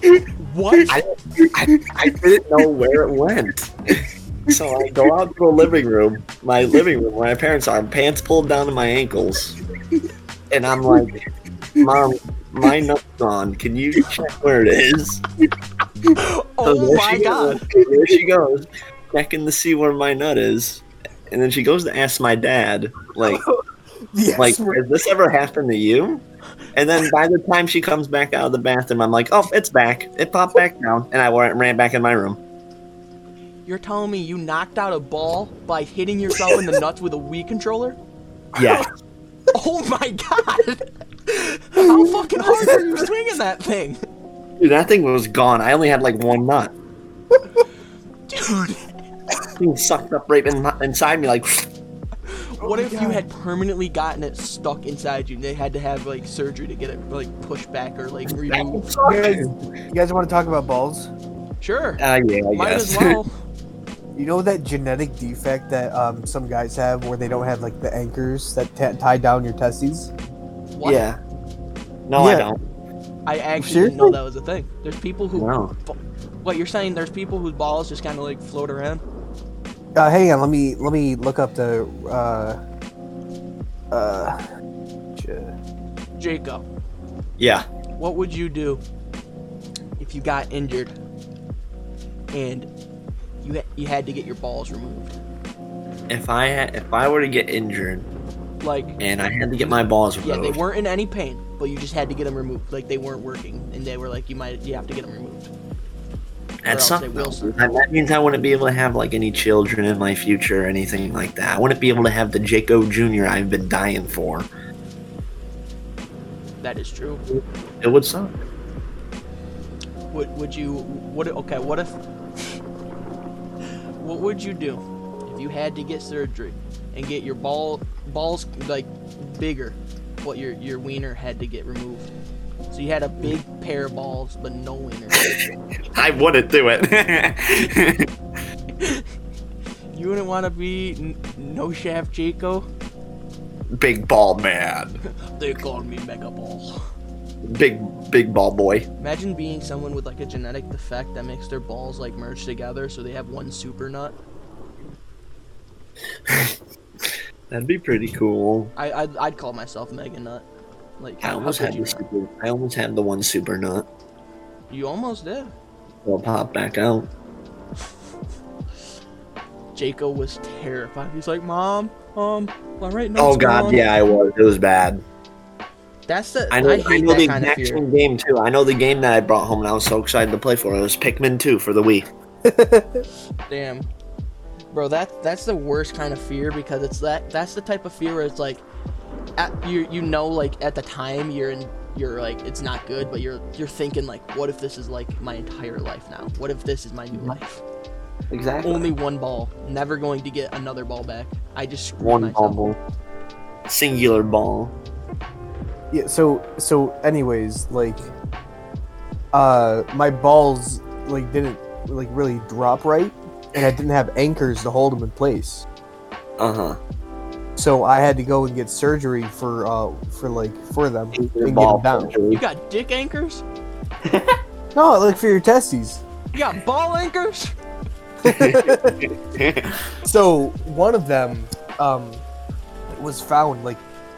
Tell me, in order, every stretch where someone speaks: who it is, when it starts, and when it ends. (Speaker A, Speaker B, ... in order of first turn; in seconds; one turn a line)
Speaker A: 0.4-0.9
Speaker B: 0.9-9.6
Speaker C: 1.4-2.2
Speaker B: 10.5-11.2
Speaker B: 11.8-15.2
Speaker A: 16.2-17.6
Speaker B: 16.6-23.5
Speaker C: 17.8-18.2
Speaker C: 23.2-23.5
Speaker C: 24.1-24.8
Speaker B: 24.4-32.4
Speaker A: 33.7-38.0
Speaker B: 38.5-38.9
Speaker A: 39.5-44.0
Speaker C: 41.8-43.0
Speaker B: 44.6-46.8
Speaker A: 48.3-48.9
Speaker B: 49.6-51.7
Speaker A: 52.3-58.9
Speaker C: 52.6-53.2
Speaker B: 58.5-59.6
Speaker C: 59.0-61.1
Speaker A: 61.6-62.0
Speaker B: 62.0-63.2
Speaker A: 62.5-63.3
Speaker C: 64.2-70.1
Speaker A: 70.7-71.0
Speaker B: 70.8-71.2
Speaker B: 72.1-72.6
Speaker C: 72.2-72.5
Speaker A: 73.3-79.0
Speaker C: 73.6-74.2
Speaker B: 75.3-75.7
Speaker C: 80.0-82.6
Speaker C: 83.9-84.4
Speaker C: 85.2-85.5
Speaker A: 86.2-86.7
Speaker B: 87.4-87.7
Speaker A: 88.0-88.8
Speaker A: 90.0-90.9
Speaker A: 92.3-92.7
Speaker A: 93.4-95.2
Speaker B: 96.1-98.1
Speaker A: 98.6-99.0
Speaker B: 99.0-100.6
Speaker A: 100.2-105.5
Speaker B: 106.6-114.5
Speaker A: 106.7-107.6
Speaker A: 116.6-117.2
Speaker B: 117.8-118.3
Speaker A: 120.1-122.0
Speaker A: 124.0-132.1
Speaker A: 132.7-135.3
Speaker B: 135.9-138.1
Speaker A: 138.8-139.1
Speaker A: 139.9-142.7
Speaker B: 143.8-145.0
Speaker A: 145.3-146.8
Speaker B: 147.4-148.9
Speaker A: 149.0-154.2
Speaker B: 156.3-158.7
Speaker A: 158.8-160.4
Speaker A: 161.0-162.0
Speaker B: 161.2-163.9
Speaker A: 164.7-165.5
Speaker B: 166.1-167.1
Speaker A: 169.8-173.9
Speaker B: 173.2-175.0
Speaker A: 176.1-177.8
Speaker B: 176.5-182.1
Speaker C: 182.4-183.1
Speaker A: 183.5-183.9
Speaker A: 184.7-188.6
Speaker A: 189.4-197.6
Speaker B: 198.3-198.9
Speaker A: 198.6-202.6
Speaker B: 202.0-202.8
Speaker B: 203.7-204.8
Speaker C: 205.9-208.1
Speaker C: 209.3-215.7
Speaker B: 216.4-216.8
Speaker C: 217.6-222.1
Speaker B: 221.2-222.4
Speaker A: 222.3-223.4
Speaker B: 224.1-224.4
Speaker C: 224.8-226.0
Speaker A: 226.3-227.6
Speaker C: 228.2-229.0
Speaker B: 228.2-229.7
Speaker C: 230.0-232.2
Speaker C: 232.9-233.8